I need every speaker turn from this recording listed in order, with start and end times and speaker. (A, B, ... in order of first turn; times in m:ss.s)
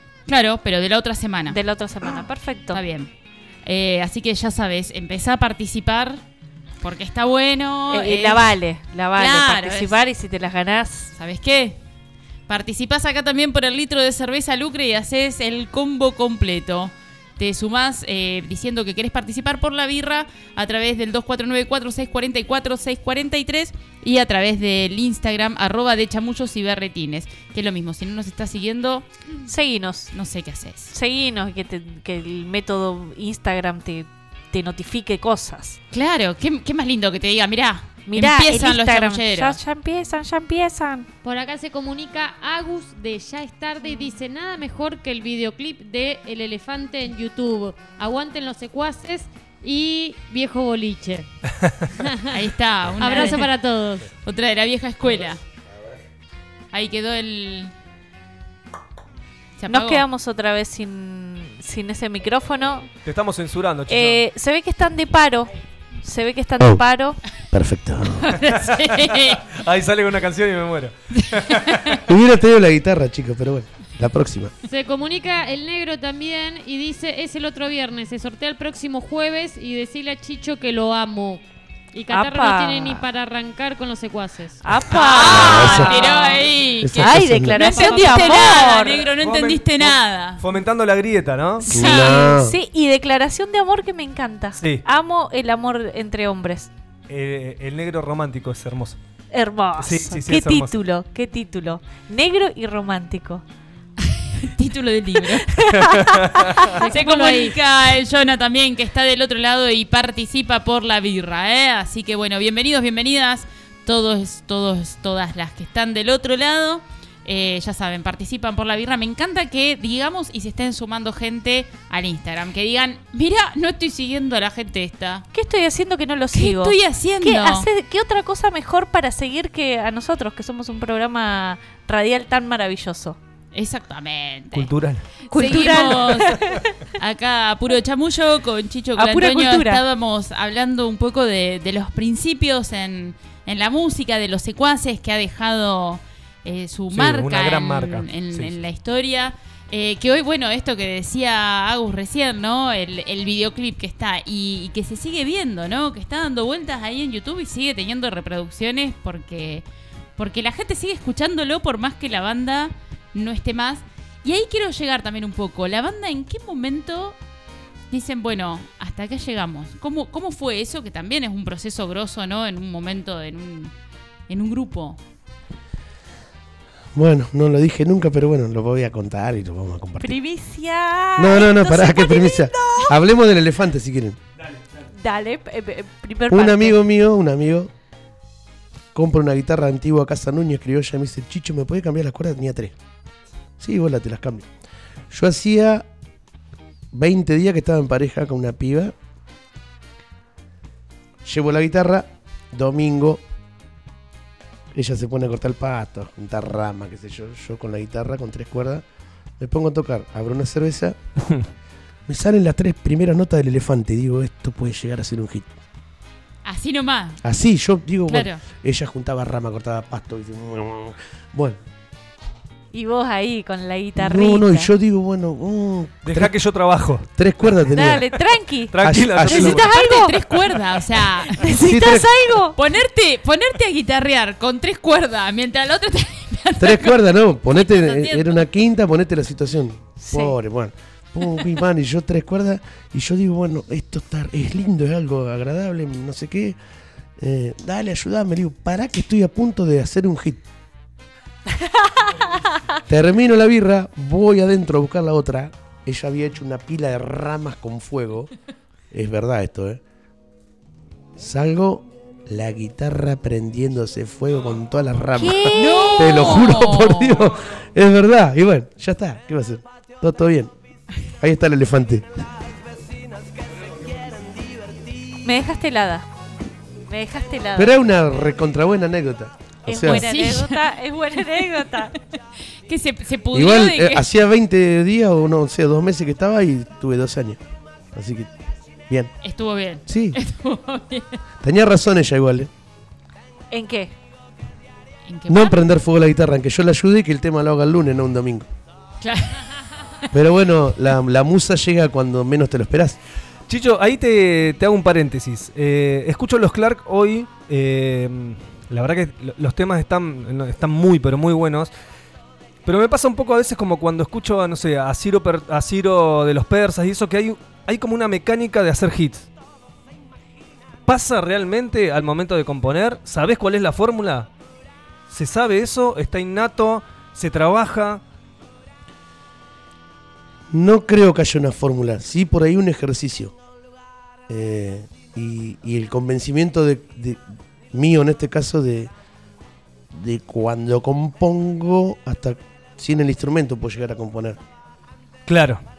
0:00.3-0:02.2 A
0:01.5-0:02.8 B
0:02.7-0:03.1 A
0:03.6-0:06.2 A
0:06.8-0:08.5 A
0:07.9-0:11.1 B
0:09.2-0:09.9 A
0:11.2-0:11.8 A
0:12.5-0:29.1 A
0:29.4-0:30.1 B
0:30.1-0:30.9 A
0:30.9-0:35.8 B
0:35.9-0:39.6 A
0:38.1-0:41.1 B
0:41.2-0:51.3 C
0:52.0-0:52.4 C
0:52.3-0:53.5 A
0:53.0-0:54.1 C
0:54.2-0:55.4 A
0:56.7-0:57.7 A
0:59.6-1:00.0 A
0:59.7-1:02.9 B
1:03.0-1:04.2 D
1:03.9-1:05.5 B
1:06.0-1:07.2 B
1:07.4-1:08.3 E
1:08.2-1:09.4 A
1:08.8-1:12.0 D
1:11.2-1:12.0 A
1:12.1-1:14.5 E
1:14.6-1:24.6 C
1:22.1-1:23.0 B
1:24.6-1:29.0 B
1:24.9-1:30.4 A
1:25.2-1:26.0 E
1:26.8-1:27.8 E
1:28.1-1:31.6 D
1:31.6-1:36.7 B
1:31.7-1:32.6 E
1:31.7-1:32.0 A
1:34.6-1:34.8 D
1:37.1-1:39.0 D
1:39.3-1:43.4 B
1:39.8-1:40.7 D
1:44.4-1:45.5 A
1:45.5-1:47.4 B
1:45.7-1:46.8 D
1:46.8-1:47.4 C
1:46.9-2:05.2 A
2:05.3-2:13.2 B
2:06.3-2:07.7 A
2:13.5-2:16.4 A
2:14.5-2:15.0 D
2:15.3-2:16.6 B
2:17.0-2:39.6 A
2:19.0-2:19.8 B
2:26.9-2:28.6 D
2:40.2-2:47.2 A
2:47.9-2:53.7 A
2:54.3-2:55.0 A
2:56.9-3:00.2 E
3:00.0-3:02.9 B
3:01.2-3:04.2 E
3:04.4-3:04.9 D
3:04.9-3:06.8 B
3:06.3-3:07.7 E
3:08.9-3:12.7 E
3:13.6-3:14.5 E
3:15.1-3:15.8 E
3:16.9-3:18.9 E
3:21.2-3:23.2 E
3:24.7-3:28.8 E
3:29.4-3:31.0 E
3:32.1-3:35.5 E
3:36.4-3:37.2 A
3:37.2-3:41.6 E
3:38.1-3:38.4 A
3:42.7-3:44.7 B
3:44.0-3:46.4 E
3:46.0-3:47.0 D
3:47.1-3:48.0 E
3:47.7-3:48.7 B
3:48.7-3:49.6 D
3:48.8-3:49.6 E
3:49.2-3:50.4 B
3:49.4-3:51.4 A
3:51.2-3:52.6 B
3:51.6-3:52.1 E
3:52.6-3:56.9 A
3:56.6-4:06.6 E
3:57.5-3:58.4 A
4:07.2-4:10.4 E
4:12.9-4:18.3 E
4:18.9-4:19.8 E
4:21.2-4:30.5 E
4:25.2-4:26.2 B
4:25.5-4:27.2 A
4:31.2-4:32.3 E
4:35.2-4:36.0 B
4:36.9-4:37.7 B
4:37.5-4:40.0 E
4:39.6-4:41.9 B
4:39.8-4:40.6 A
4:42.7-4:44.0 A
4:43.3-4:47.4 E
4:47.9-4:48.3 E
4:49.2-4:51.2 A
4:49.9-4:50.2 E
4:51.4-4:52.5 E
4:53.5-4:53.9 B
4:55.1-4:55.6 A
4:55.3-4:58.5 E
4:59.0-4:59.5 A
5:00.1-5:03.0 E
5:03.5-5:11.7 D
5:12.6-5:19.3 D
5:20.9-5:24.3 D
5:25.1-5:28.0 D
5:30.5-5:33.3 E
5:34.3-5:38.9 E
5:39.9-5:44.4 E
5:45.2-5:45.6 D